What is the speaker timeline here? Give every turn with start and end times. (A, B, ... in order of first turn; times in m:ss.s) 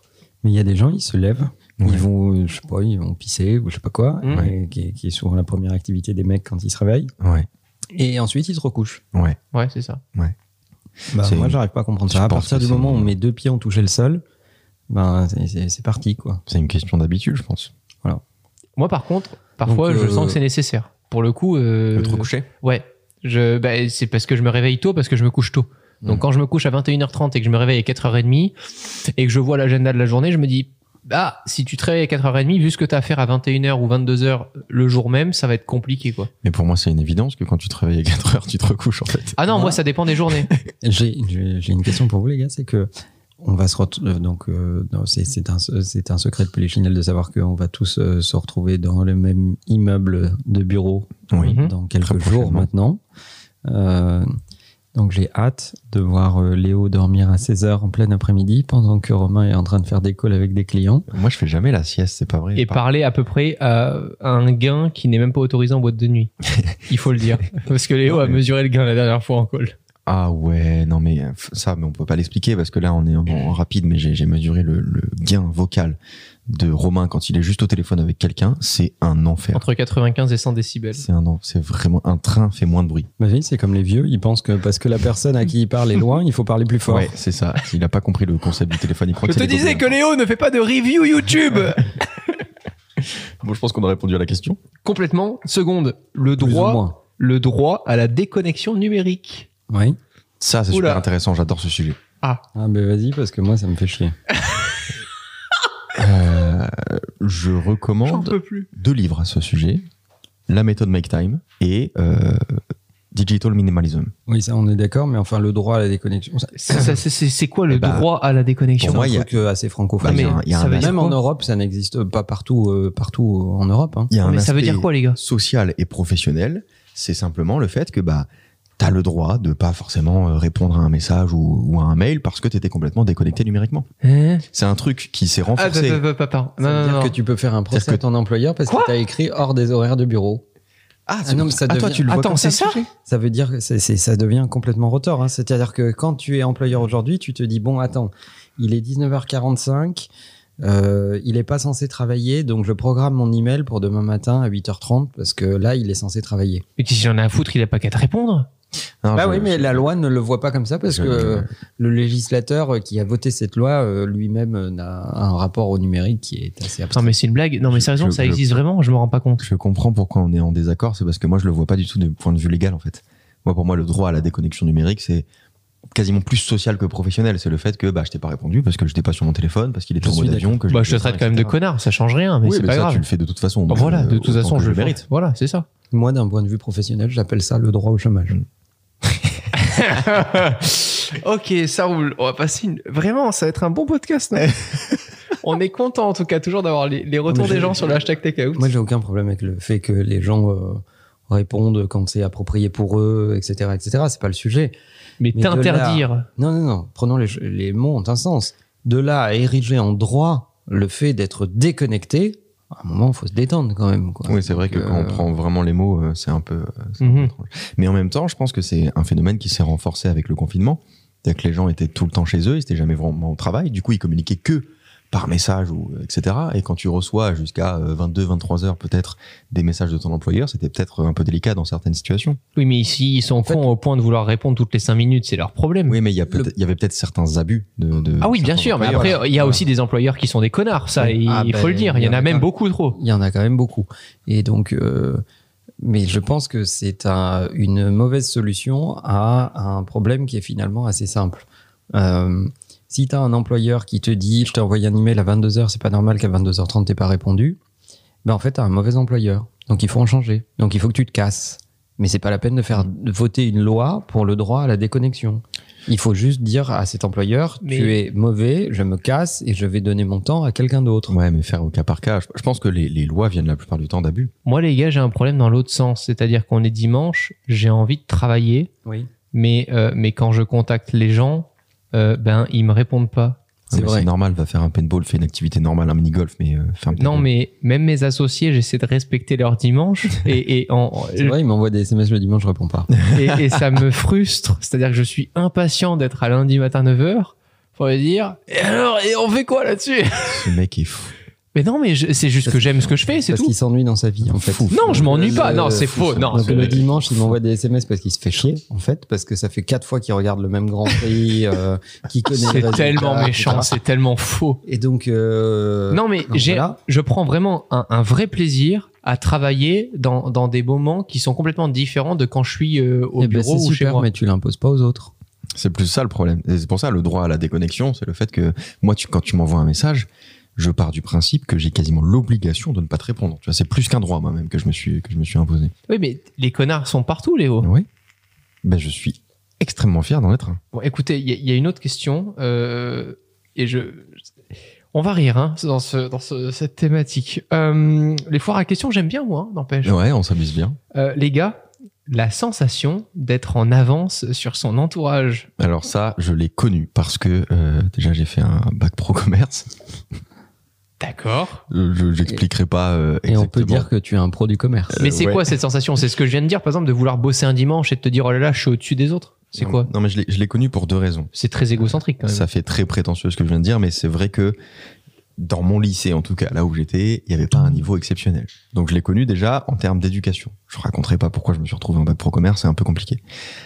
0:00.4-0:07.1 A
0:01.8-0:02.1 B
0:04.2-0:04.5 C
0:07.2-0:07.5 B
0:07.9-0:09.0 A
0:09.5-0:10.0 C
0:11.1-0:14.2 A
0:11.1-0:13.1 B
0:14.9-0:16.4 A
0:16.5-0:17.7 B
0:18.8-0:36.3 C
0:19.7-0:20.4 A
0:21.9-0:22.5 B
0:36.4-0:39.4 B
0:39.4-0:40.5 C
0:39.5-0:39.8 A
0:40.3-0:40.6 B
0:40.8-0:42.9 A
0:43.4-0:53.0 A
0:51.3-0:52.7 B
0:51.4-0:51.7 C
0:53.6-0:54.3 A
0:54.9-1:01.1 A
1:01.1-1:02.8 B
1:02.6-1:06.3 C
1:06.9-1:09.7 C
1:08.1-1:08.4 B
1:10.0-1:19.6 B
1:19.5-1:21.0 C
1:20.9-1:23.1 B
1:23.2-1:27.1 A
1:26.8-1:29.9 B
1:29.2-1:32.4 C
1:33.4-1:34.6 B
1:34.8-1:39.5 C
1:36.4-1:37.0 A
1:39.7-1:40.0 A
1:40.4-1:42.0 B
1:40.7-1:41.0 C
1:42.5-1:44.1 A
1:45.9-1:49.9 B
1:48.0-1:48.7 C
1:50.5-1:52.6 B
1:53.1-1:54.1 B
1:54.3-1:57.0 A
1:56.5-1:59.1 C
1:57.7-1:58.1 B
1:58.8-1:59.3 B
1:58.8-2:04.1 A
2:00.0-2:01.0 B
2:00.0-2:01.2 C
2:04.1-2:13.9 B
2:04.2-2:05.2 C
2:14.0-2:14.4 C
2:14.5-2:16.0 B
2:15.5-2:17.2 C
2:16.6-2:20.4 A
2:17.7-2:18.0 B
2:18.7-2:18.9 C
2:21.1-2:22.9 B
2:21.2-2:22.1 A
2:22.0-2:22.8 C
2:23.0-2:30.1 A
2:30.6-2:36.6 A
2:36.8-2:38.5 C
2:39.0-2:39.8 B
2:39.1-2:47.1 A
2:40.9-2:41.5 B
2:46.9-2:49.4 C
2:47.7-2:48.5 B
2:49.4-2:55.2 B
2:55.9-3:01.6 B
3:00.0-3:00.6 A
3:00.7-3:03.0 C
3:02.4-3:05.0 B
3:03.7-3:05.6 C
3:05.9-3:08.4 A
3:09.0-3:09.4 B
3:09.5-3:14.5 C
3:15.4-3:18.7 C
3:17.3-3:18.0 A
3:18.6-3:24.8 A
3:25.2-3:26.3 C
3:25.3-3:35.2 A
3:34.2-3:52.4 B
3:37.0-3:37.3 C
3:52.5-3:56.0 C
3:55.9-3:59.2 B
3:58.2-4:03.0 C
3:58.8-3:59.6 A
4:01.0-4:05.2 A
4:05.8-4:17.6 A
4:18.2-4:31.2 A
4:27.6-4:28.0 C
4:31.1-4:34.3 B
4:34.4-4:38.7 C
4:39.3-4:43.4 C
4:43.7-4:47.3 B
4:43.7-4:44.1 A
4:47.0-4:51.4 C
4:51.2-4:52.9 A
4:53.1-5:00.5 C
5:00.2-5:01.1 B
5:01.5-5:03.5 C
5:02.4-5:13.8 A
5:04.3-5:07.0 B
5:04.7-5:06.8 C
5:12.3-5:14.6 C
5:14.6-5:16.8 A
5:15.9-5:24.1 C
5:23.2-5:25.1 A
5:25.5-5:35.7 B
5:35.9-5:37.7 C
5:37.6-5:37.9 B
5:38.6-5:40.6 B
5:40.7-5:44.2 C
5:44.9-5:50.0 C
5:49.8-5:50.8 B
5:50.9-5:55.5 C
5:55.6-5:59.7 B
6:01.0-6:01.6 C
6:01.7-6:03.9 B
6:03.3-6:05.0 A
6:04.9-6:05.5 B
6:05.0-6:09.9 C
6:09.5-6:14.6 B
6:11.3-6:12.5 C
6:15.4-6:23.2 B